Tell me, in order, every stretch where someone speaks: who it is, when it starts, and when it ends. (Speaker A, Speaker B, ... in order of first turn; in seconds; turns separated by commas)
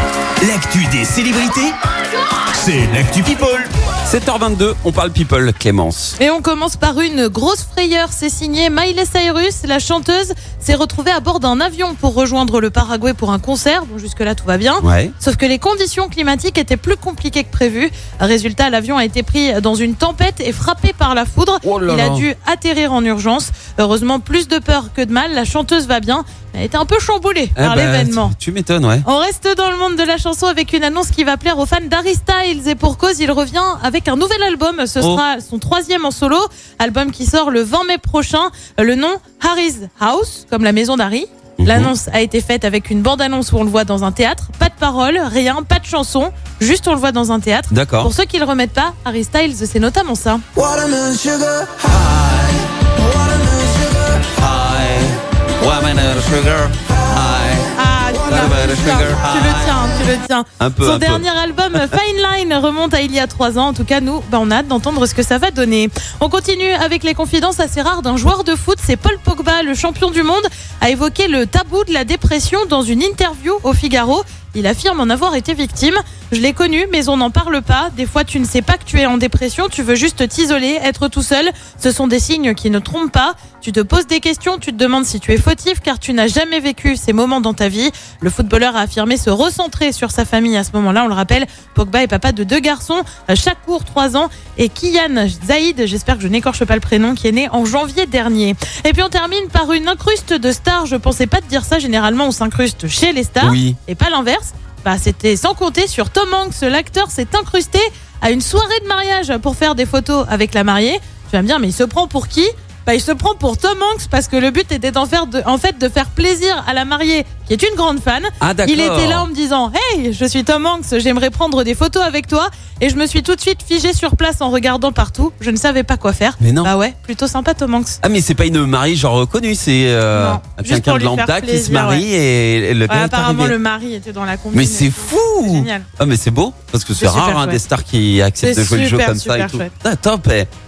Speaker A: 0.4-1.7, Speaker A: 2.5-3.7, Speaker B: 4.0-6.2, Speaker C: 6.2-28.3, Speaker B: 14.8-15.1, Speaker B: 21.6-22.3, Speaker B: 27.6-29.1, Speaker C: 29.0-50.4, Speaker B: 41.6-41.9, Speaker B: 47.7-48.1, Speaker D: 50.5-52.1, Speaker B: 52.1-52.5, Speaker D: 53.0-54.2, Speaker B: 54.2-57.7, Speaker C: 57.7-128.0, Speaker B: 58.2-59.7, Speaker B: 60.6-61.2, Speaker B: 103.4-103.8, Speaker B: 118.4-119.3, Speaker B: 126.4-126.7, Speaker B: 128.0-133.5, Speaker C: 130.1-132.0, Speaker C: 132.9-135.9, Speaker B: 134.5-140.5, Speaker C: 137.0-137.6, Speaker C: 138.4-139.7